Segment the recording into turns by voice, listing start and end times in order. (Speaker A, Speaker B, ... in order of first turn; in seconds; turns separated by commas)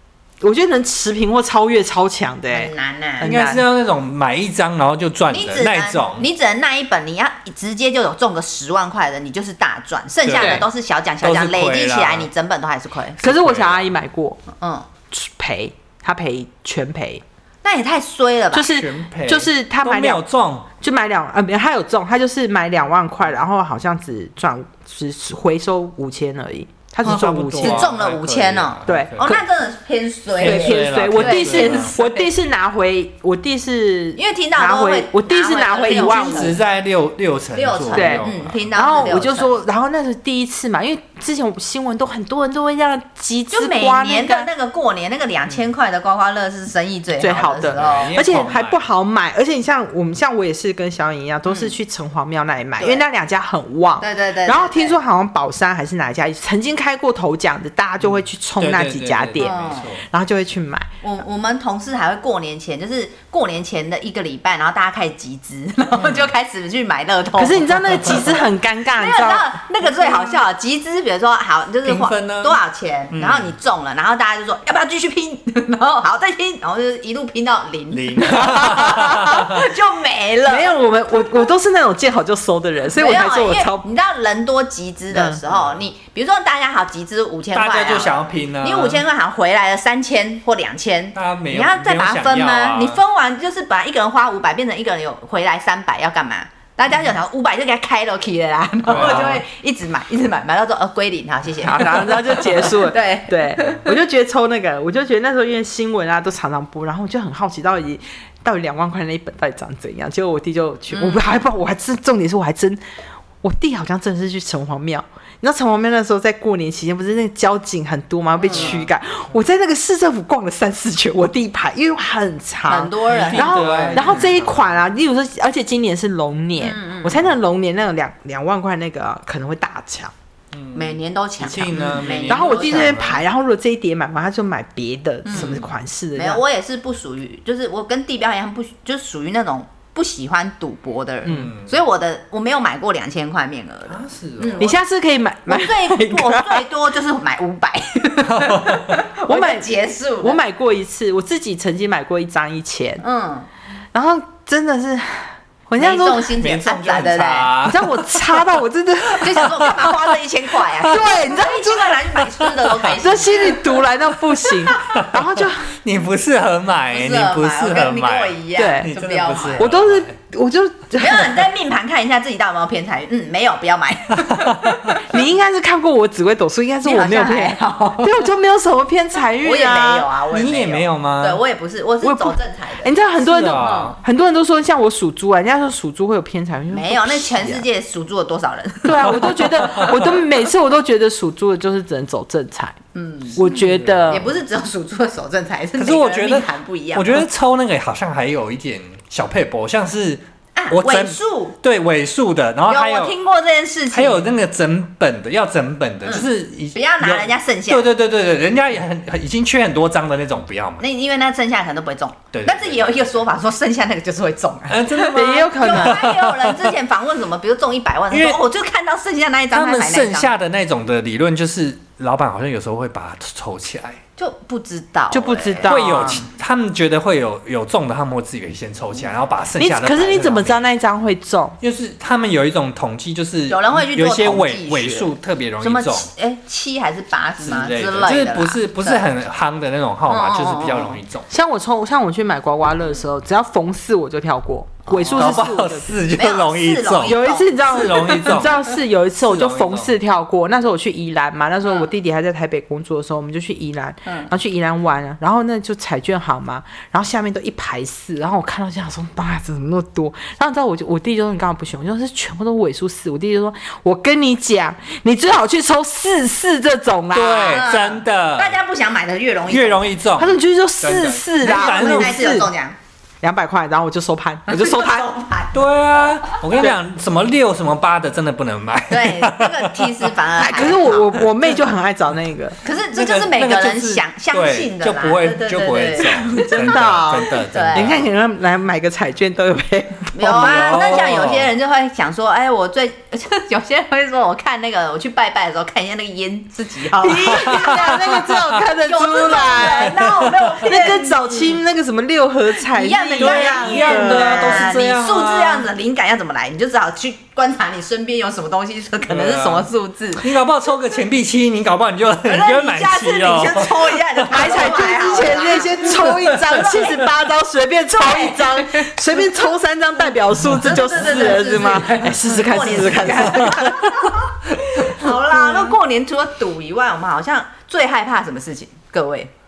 Speaker A: 0.4-3.6, Speaker B: 2.5-3.3, Speaker C: 3.2-6.3, Speaker B: 5.3-13.2, Speaker C: 10.2-10.7, Speaker A: 10.3-10.6, Speaker C: 11.2-12.3, Speaker C: 13.2-13.9, Speaker A: 13.2-14.4, Speaker B: 14.5-14.8, Speaker A: 15.1-17.2, Speaker B: 17.6-18.7, Speaker A: 18.5-20.2, Speaker C: 18.7-20.7, Speaker A: 20.8-27.9, Speaker C: 27.0-29.4, Speaker B: 27.1-32.3, Speaker A: 28.9-29.4, Speaker C: 30.4-31.9, Speaker A: 30.4-36.6, Speaker B: 34.1-36.6, Speaker C: 35.9-38.6, Speaker B: 37.5-39.5, Speaker A: 37.9-44.5, Speaker B: 43.5-48.2, Speaker A: 47.2-60.9, Speaker C: 47.4-48.8, Speaker B: 51.5-51.7, Speaker B: 54.0-55.0, Speaker C: 58.0-60.0, Speaker B: 59.4-59.9, Speaker B: 61.0-68.3, Speaker A: 67.4-69.6, Speaker B: 69.0-80.7, Speaker C: 70.0-70.4, Speaker C: 71.8-72.6, Speaker C: 73.1-73.5, Speaker C: 77.9-79.6, Speaker A: 78.2-79.5, Speaker A: 80.5-83.9, Speaker B: 83.0-103.9, Speaker A: 85.1-85.4, Speaker C: 85.5-85.8, Speaker C: 87.5-89.0, Speaker C: 91.1-93.0, Speaker C: 98.8-99.4, Speaker A: 101.6-112.8, Speaker B: 110.9-111.4, Speaker A: 113.4-130.1, Speaker B: 118.4-118.8, Speaker C: 118.5-118.9, Speaker B: 122.7-124.3, Speaker C: 123.1-124.7, Speaker B: 126.6-127.3, Speaker C: 130.5-133.2, Speaker B: 130.7-133.0, Speaker A: 131.8-136.4, Speaker B: 135.2-135.6, Speaker C: 135.3-135.6, Speaker B: 136.2-144.8, Speaker A: 141.2-141.5, Speaker C: 141.2-141.8, Speaker C: 143.9-144.7, Speaker A: 144.6-146.7, Speaker B: 145.5-150.4, Speaker C: 148.2-148.9, Speaker A: 149.3-153.0, Speaker B: 153.0-153.5, Speaker A: 153.9-156.4, Speaker B: 155.8-157.5, Speaker C: 156.4-158.5, Speaker A: 157.6-159.7, Speaker B: 159.2-163.8, Speaker C: 159.2-159.9, Speaker A: 160.8-162.0, Speaker C: 162.4-162.8, Speaker A: 163.0-165.7, Speaker B: 164.6-164.9, Speaker C: 164.9-170.1, Speaker B: 166.9-169.7, Speaker A: 168.6-168.9, Speaker A: 169.6-171.5, Speaker B: 170.9-175.1, Speaker C: 174.3-175.0, Speaker A: 175.0-180.1, Speaker B: 176.8-178.3, Speaker B: 179.4-183.0, Speaker C: 180.3-181.4, Speaker A: 182.0-187.6, Speaker C: 183.2-184.0, Speaker B: 183.5-184.0, Speaker B: 186.7-189.9, Speaker A: 188.8-192.8, Speaker C: 189.1-190.2, Speaker B: 192.9-197.3, Speaker A: 193.3-194.3, Speaker C: 193.4-194.3, Speaker C: 195.8-203.2, Speaker B: 200.6-201.5, Speaker B: 202.7-204.3, Speaker C: 203.9-210.8, Speaker B: 206.0-207.9, Speaker B: 210.8-220.3, Speaker C: 212.3-213.1, Speaker C: 214.7-216.7, Speaker A: 215.1-216.0, Speaker C: 218.1-218.4, Speaker C: 219.5-224.0, Speaker B: 224.2-226.2, Speaker A: 225.1-226.2, Speaker C: 225.6-230.6, Speaker A: 229.6-231.6, Speaker C: 231.6-236.1, Speaker B: 233.5-239.0, Speaker C: 237.4-241.3, Speaker B: 240.1-241.0, Speaker A: 241.3-246.0, Speaker B: 244.8-245.5, Speaker C: 245.1-249.9, Speaker B: 246.1-248.2, Speaker A: 247.0-267.7, Speaker B: 251.6-251.9, Speaker B: 254.0-254.3, Speaker C: 267.1-268.6, Speaker B: 267.4-269.9, Speaker C: 269.5-272.4, Speaker A: 270.1-272.5, Speaker B: 271.4-272.8, Speaker A: 273.2-275.1, Speaker B: 274.5-275.6, Speaker C: 275.5-280.1, Speaker B: 276.2-276.7, Speaker B: 278.9-281.2, Speaker A: 280.4-282.6, Speaker B: 282.6-288.0, Speaker C: 282.9-288.0, Speaker A: 286.0-291.1, Speaker B: 290.1-297.8, Speaker C: 290.2-291.5, Speaker A: 297.0-304.7, Speaker C: 297.2-298.4, Speaker B: 298.8-301.6, Speaker C: 299.6-300.2, Speaker B: 302.7-310.2, Speaker C: 303.2-305.7, Speaker C: 309.1-314.8, Speaker B: 312.2-317.0, Speaker A: 314.3-324.2, Speaker C: 315.9-316.9, Speaker B: 318.0-318.9, Speaker C: 320.4-321.0, Speaker B: 320.6-329.3, Speaker C: 323.0-323.6, Speaker A: 324.8-325.8